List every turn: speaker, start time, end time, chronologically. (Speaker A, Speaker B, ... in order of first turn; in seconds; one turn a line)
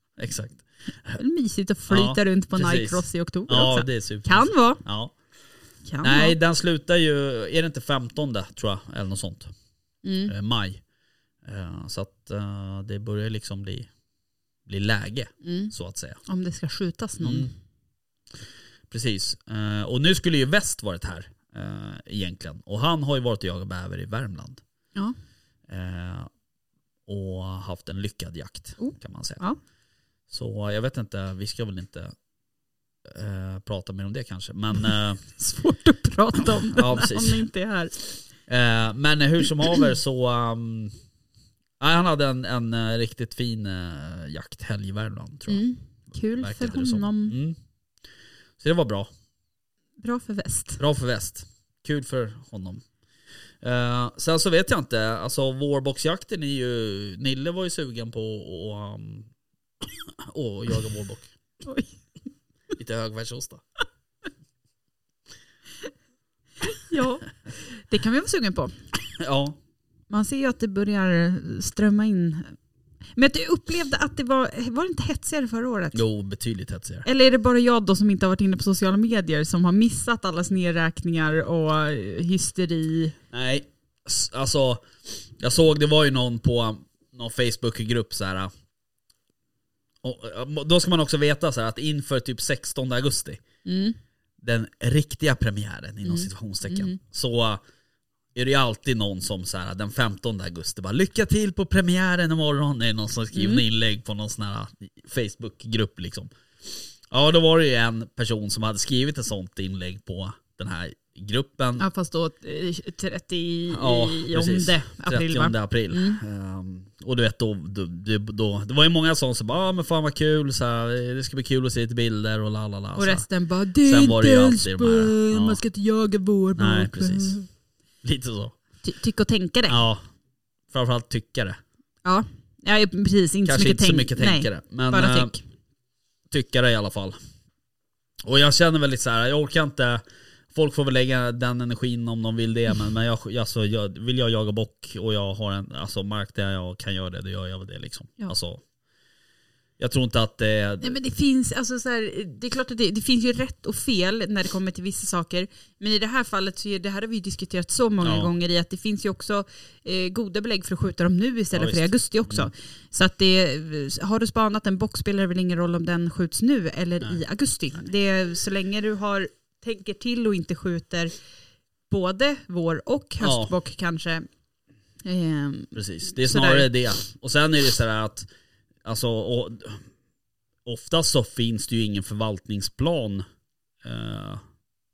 Speaker A: 0.2-1.2
Speaker B: 1.1-4.8
Speaker A: 1.9-5.1
Speaker B: 5.9-6.4
Speaker A: 6.0-9.5
Speaker B: 10.0-10.3
Speaker A: 10.3-10.8
Speaker A: 11.4-13.9
Speaker A: 14.7-16.2
Speaker B: 15.4-15.7
Speaker B: 16.3-17.5
Speaker A: 17.2-17.5
Speaker A: 18.9-24.6
Speaker A: 25.7-26.3
Speaker A: 27.1-29.4
Speaker B: 28.8-29.6
Speaker A: 30.3-32.1
Speaker A: 33.0-35.2
Speaker B: 35.4-38.0
Speaker A: 36.7-37.4
Speaker A: 38.5-40.9
Speaker A: 41.8-45.6
Speaker B: 45.5-47.4
Speaker A: 46.4-47.6
Speaker A: 48.6-49.1
Speaker B: 50.0-50.8
Speaker A: 50.8-52.8
Speaker A: 53.6-59.3
Speaker A: 59.8-61.3
Speaker B: 61.6-61.9
Speaker A: 62.8-63.6
Speaker B: 66.6-68.8
Speaker A: 69.2-69.6
Speaker B: 70.1-72.6
Speaker B: 73.2-76.0
Speaker A: 75.9-77.1
Speaker B: 77.0-83.2
Speaker A: 83.3-84.9
Speaker A: 85.4-88.5
Speaker A: 90.0-93.4
Speaker B: 93.6-94.0
Speaker A: 94.4-97.6
Speaker B: 96.0-97.0
Speaker A: 98.3-111.8
Speaker B: 103.3-103.6
Speaker B: 111.8-116.2
Speaker A: 113.7-123.2
Speaker B: 123.0-127.5
Speaker A: 123.8-125.6
Speaker A: 126.6-127.4
Speaker A: 128.0-128.6
Speaker B: 128.8-129.8
Speaker A: 129.7-130.0
Speaker A: 130.7-131.6
Speaker B: 132.1-135.4
Speaker A: 133.4-135.3
Speaker A: 136.3-137.2
Speaker A: 138.2-148.6
Speaker A: 149.8-150.9
Speaker B: 150.8-171.1
Speaker A: 158.0-158.3
Speaker A: 161.5-162.5
Speaker B: 171.9-174.3
Speaker A: 173.2-173.5
Speaker B: 175.1-176.7
Speaker A: 175.7-178.3
Speaker A: 178.8-179.8
Speaker A: 180.6-183.2
Speaker A: 183.8-184.4